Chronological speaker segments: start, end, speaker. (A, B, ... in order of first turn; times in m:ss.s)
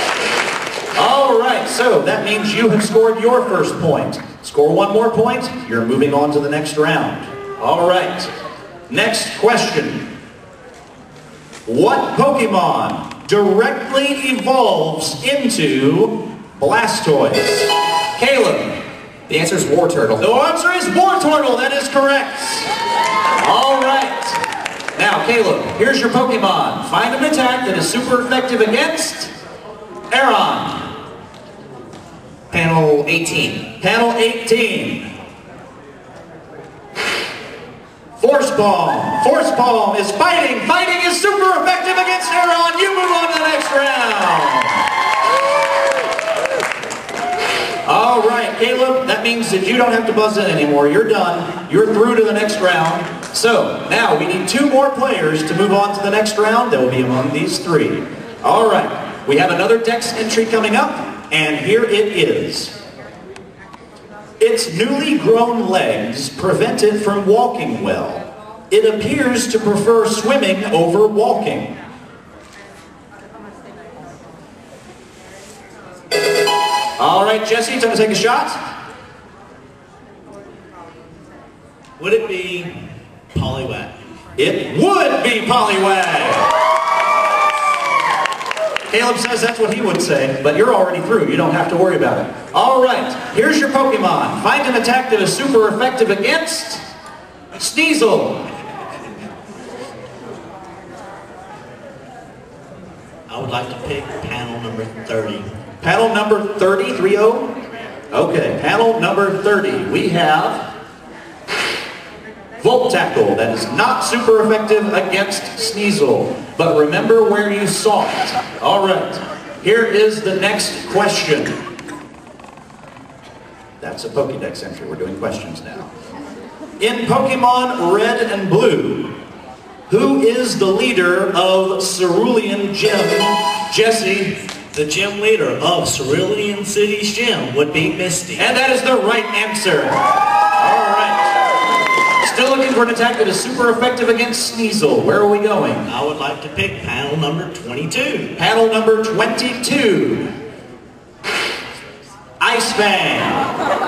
0:01.0-0:08.3 A
0:08.9-0:10.1 A
0:11.6-0:18.8 A
0:19.3-0:20.2 B
0:20.2-0:22.7 A
0:23.3-0:24.4 A
0:25.0-0:29.3 A
0:30.1-0:31.0 A
0:32.5-0:33.7 B
0:33.8-0:35.1 A
0:38.2-0:44.8 A
0:47.8-1:02.8 A
1:04.4-1:11.8 A
1:17.0-1:18.6 A
1:22.0-1:24.0 C
1:24.4-1:26.5 A
1:28.9-1:36.8 A
1:37.5-1:38.5 A
1:43.3-1:45.5 C
1:45.8-1:47.5 A
1:48.1-1:50.7 A
1:52.6-2:01.6 A
2:03.8-2:05.9 A
2:06.8-2:09.2 A
2:09.9-2:14.4 A
2:14.7-2:18.5 C
2:18.4-2:20.0 A
2:20.6-2:21.4 A
2:22.2-2:25.9 A
2:25.8-2:28.3 C
2:28.4-2:30.3 A
2:32.4-2:33.5 A